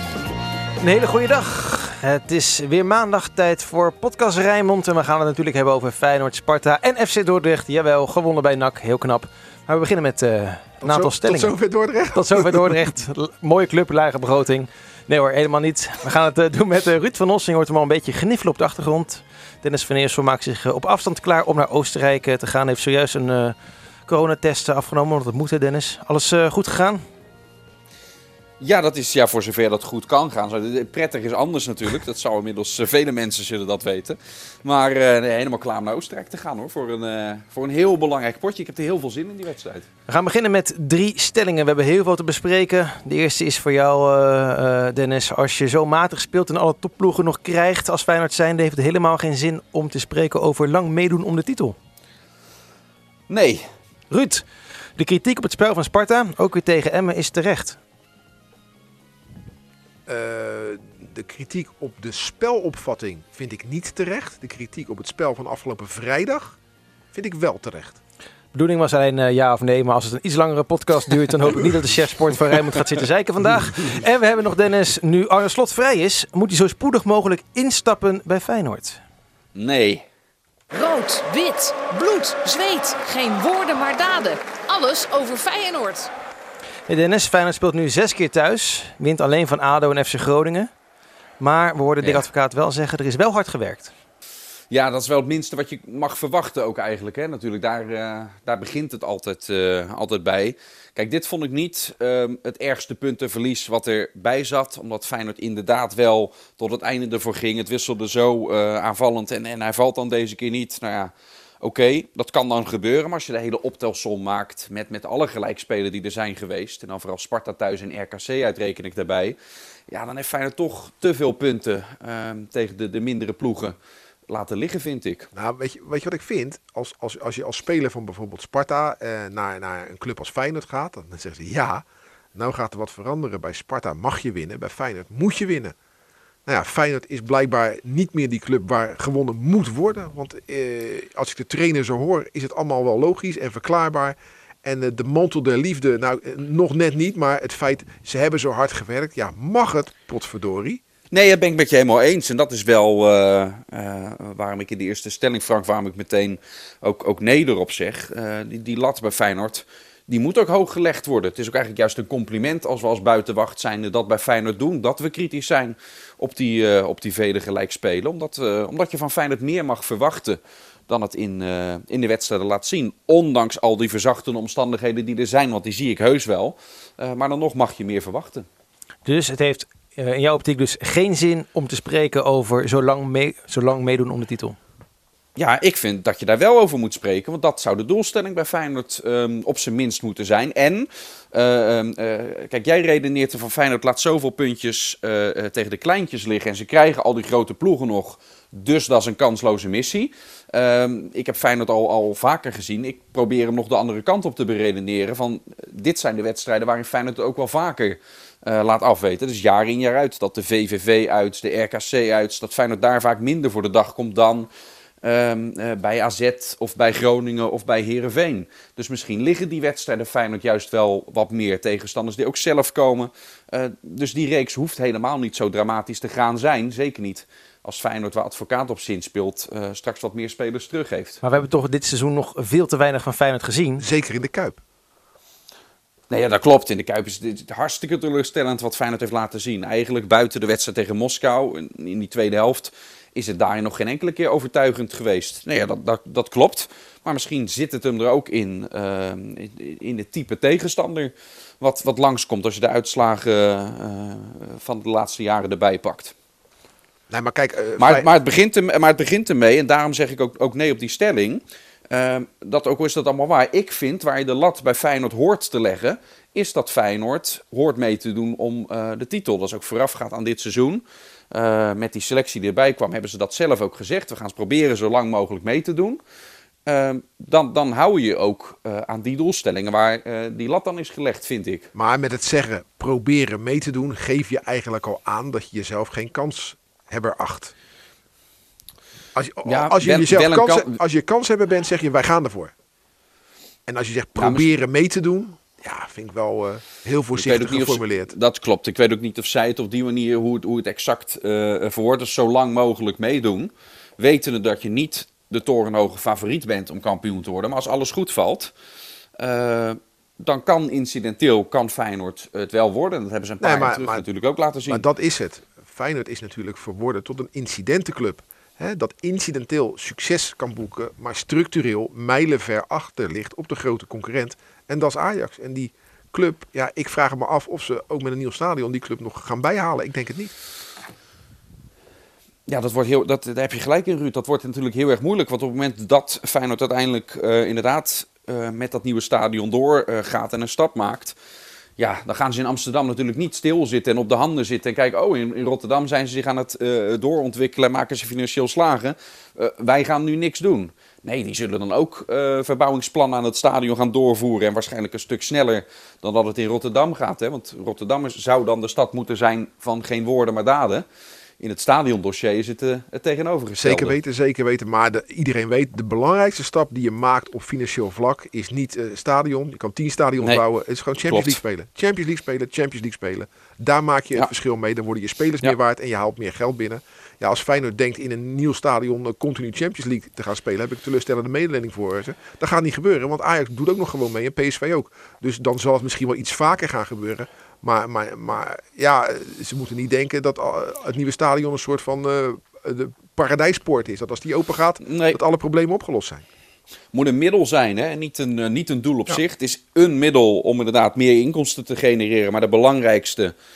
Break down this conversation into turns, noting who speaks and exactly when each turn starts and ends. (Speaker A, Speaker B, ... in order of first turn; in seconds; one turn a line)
Speaker A: 0.8-11.5
Speaker B: 10.8-12.9
Speaker A: 12.1-23.5
Speaker A: 24.1-27.0
Speaker C: 28.6-39.9
Speaker A: 40.1-51.8
Speaker C: 53.3-53.7
Speaker A: 54.1-54.4
Speaker A: 55.0-57.8
Speaker B: 60.1-66.6
Speaker B: 67.1-68.0
Speaker A: 68.5-79.0
Speaker C: 79.5-80.0
Speaker D: 80.7-86.1
Speaker A: 86.9-90.7
Speaker A: 91.4-93.9
Speaker C: 92.0-92.2
Speaker C: 94.7-119.4
Speaker C: 119.9-123.8
Speaker C: 124.3-125.3
Speaker B: 125.3-135.7
Speaker B: 136.4-150.8
Speaker C: 151.1-178.5
Speaker A: 179.0-184.6
Speaker C: 185.3-214.5
Speaker C: 215.0-231.2
Speaker A: 231.2-233.8
Speaker B: 233.8-234.6
Speaker C: 236.1-256.1
Speaker B: 257.1-258.1
Speaker C: 257.8-276.0
Speaker C: 276.6-281.7
Speaker B: 281.7-287.5
Speaker B: 289.1-292.5
Speaker C: 289.4-290.8
Speaker B: 293.7-298.1
Speaker C: 294.2-294.5
Speaker C: 297.1-308.5
Speaker C: 309.2-314.8
Speaker B: 313.4-314.0
Speaker B: 314.7-330.3
Speaker C: 332.5-341.1
Speaker C: 341.8-360.8
Speaker C: 361.4-363.9
Speaker B: 363.6-396.2
Speaker C: 371.1-371.4
Speaker C: 394.8-395.2
Speaker C: 396.9-403.3